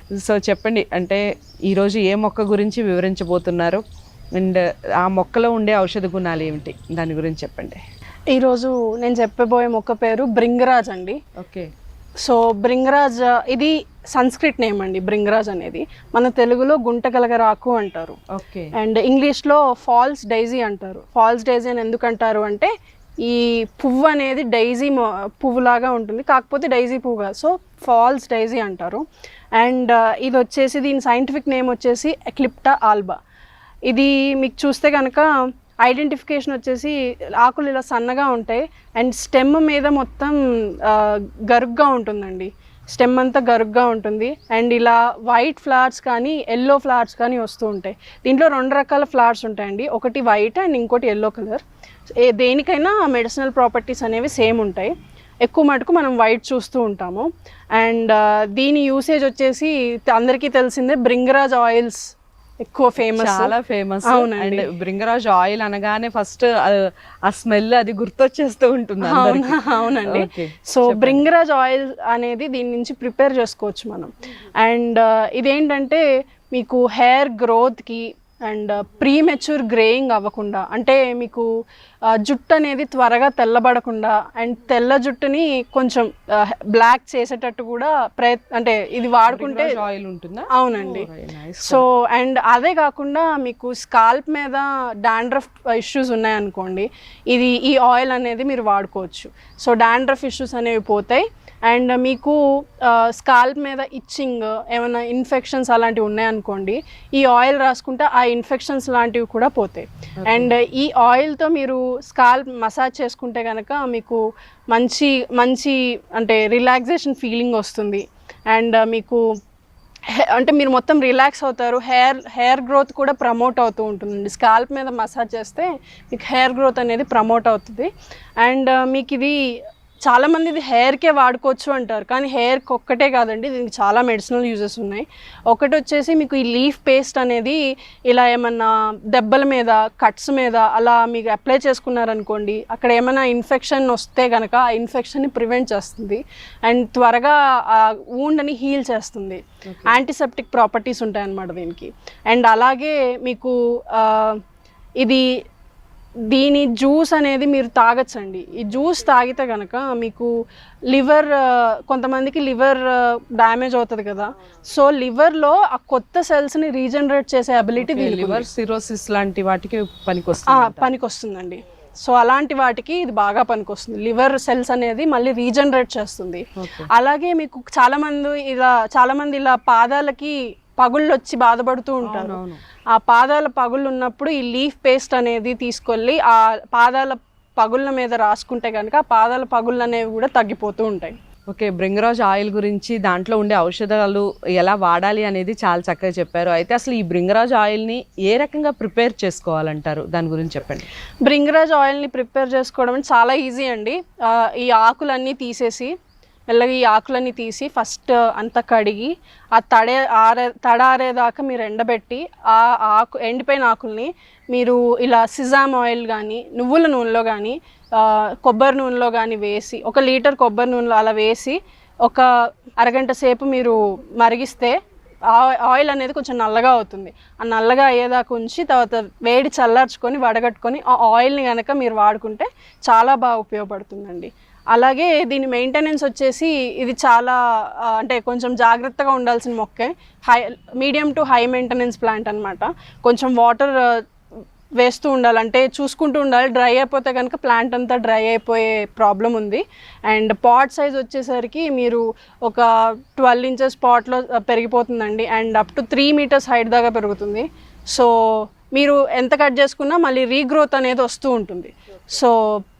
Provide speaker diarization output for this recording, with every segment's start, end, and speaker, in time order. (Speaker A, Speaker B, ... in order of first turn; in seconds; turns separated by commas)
Speaker A: 0.1-3.8, Speaker A: 4.4-7.8, Speaker B: 8.3-11.2, Speaker A: 11.4-11.7, Speaker B: 12.2-18.2, Speaker A: 18.3-18.7, Speaker B: 18.8-22.7, Speaker B: 23.2-29.0, Speaker B: 29.6-33.2, Speaker B: 33.9-35.3, Speaker B: 35.8-51.6, Speaker B: 52.2-54.9, Speaker B: 55.4-62.1, Speaker B: 62.6-63.5, Speaker A: 63.1-71.2, Speaker B: 64.1-64.7, Speaker B: 69.0-81.5, Speaker B: 82.1-89.8, Speaker A: 89.2-91.8, Speaker B: 90.5-91.1, Speaker B: 91.6-119.2, Speaker A: 110.2-110.5, Speaker B: 120.2-129.5, Speaker B: 130.1-154.4, Speaker A: 149.7-150.0, Speaker B: 156.3-160.3, Speaker B: 160.9-168.5, Speaker A: 167.8-170.9, Speaker B: 170.5-182.4, Speaker A: 176.6-176.9, Speaker A: 182.1-182.6, Speaker B: 182.9-191.2, Speaker A: 191.5-200.9, Speaker B: 201.2-205.9, Speaker B: 206.5-222.3, Speaker B: 222.8-224.8, Speaker B: 225.3-244.0, Speaker B: 244.8-258.1, Speaker B: 258.8-262.4